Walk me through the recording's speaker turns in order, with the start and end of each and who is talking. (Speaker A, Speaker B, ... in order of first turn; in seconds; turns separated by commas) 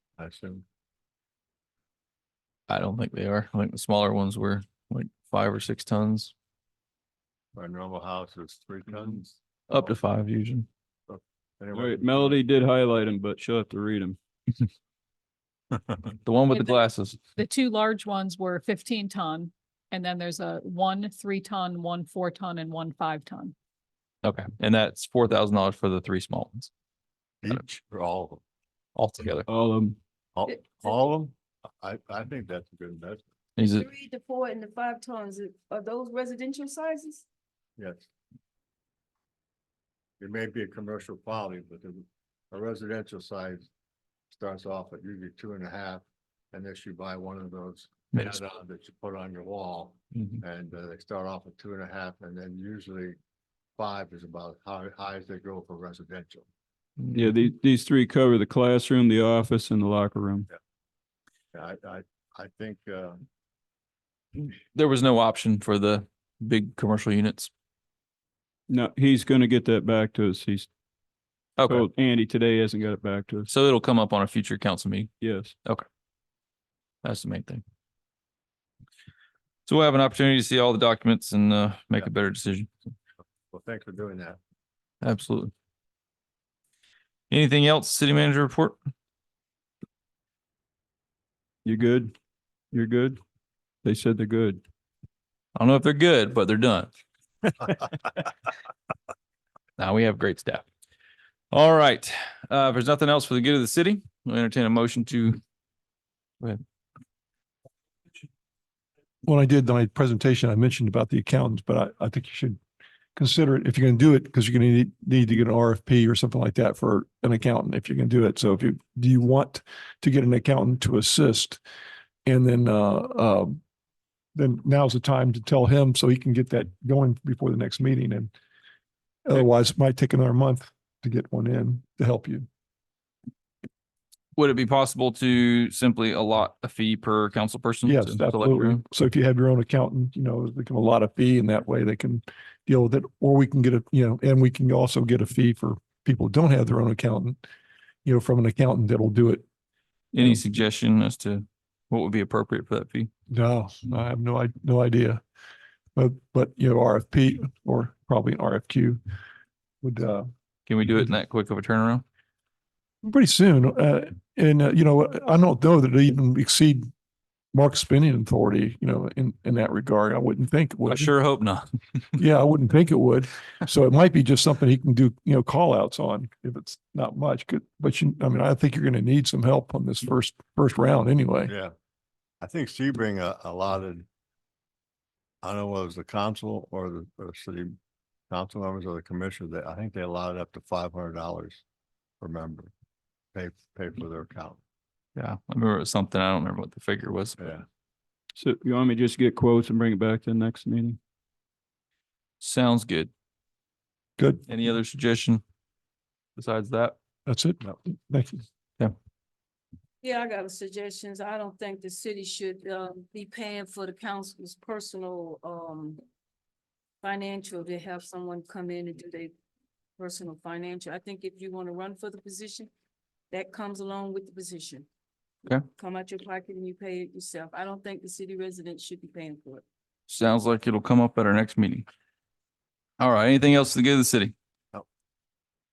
Speaker A: 0.2-0.7, Speaker B: 2.7-6.3, Speaker A: 7.5-9.9, Speaker B: 9.7-10.7, Speaker A: 11.1-12.4, Speaker C: 11.7-14.2, Speaker B: 16.2-17.2, Speaker D: 16.5-16.8, Speaker D: 17.4-23.5, Speaker B: 24.2-26.7, Speaker A: 27.4-28.4, Speaker B: 28.9-29.5, Speaker C: 29.5-30.0, Speaker A: 30.4-33.3, Speaker B: 33.6-33.9, Speaker E: 33.6-37.2, Speaker A: 37.8-38.1, Speaker A: 40.2-43.7, Speaker A: 44.3-53.2, Speaker B: 48.1-48.4, Speaker B: 50.2-50.4, Speaker A: 53.8-56.5, Speaker B: 57.0-57.3, Speaker C: 57.1-60.5, Speaker A: 61.5-63.2, Speaker B: 64.3-67.5, Speaker C: 68.7-70.7, Speaker B: 71.6-71.8, Speaker C: 71.7-73.5, Speaker B: 73.5-75.1, Speaker C: 75.2-75.6, Speaker B: 77.0-77.6, Speaker B: 79.7-82.7, Speaker A: 83.5-84.4, Speaker B: 85.0-85.5, Speaker B: 87.3-88.8, Speaker C: 91.7-92.1, Speaker C: 92.7-93.2, Speaker C: 93.8-94.6, Speaker B: 95.6-96.9, Speaker B: 99.8-100.7, Speaker B: 101.5-105.4, Speaker F: 109.2-112.6, Speaker F: 113.2-121.6, Speaker F: 122.3-123.6, Speaker F: 124.3-128.3, Speaker F: 129.3-132.5, Speaker B: 134.4-138.8, Speaker F: 137.8-147.4, Speaker F: 148.1-149.4, Speaker B: 150.1-153.1, Speaker F: 153.3-155.2, Speaker F: 156.0-159.0, Speaker F: 159.8-160.3, Speaker B: 160.7-162.0, Speaker F: 163.0-166.9, Speaker F: 167.5-171.1, Speaker B: 170.9-172.2, Speaker F: 172.2-181.5, Speaker A: 182.4-184.1, Speaker A: 185.4-187.7, Speaker A: 188.3-191.6, Speaker A: 192.2-192.7, Speaker A: 193.3-194.6, Speaker B: 195.2-197.5, Speaker A: 197.4-197.7, Speaker C: 198.3-201.0, Speaker B: 202.4-203.1, Speaker F: 204.2-204.4, Speaker B: 204.5-205.4, Speaker B: 206.4-207.0, Speaker F: 207.3-208.4, Speaker E: 210.0-216.0, Speaker E: 217.0-219.3, Speaker E: 220.0-222.7, Speaker E: 223.3-224.9, Speaker E: 225.8-229.6, Speaker B: 230.1-231.9, Speaker B: 233.0-234.3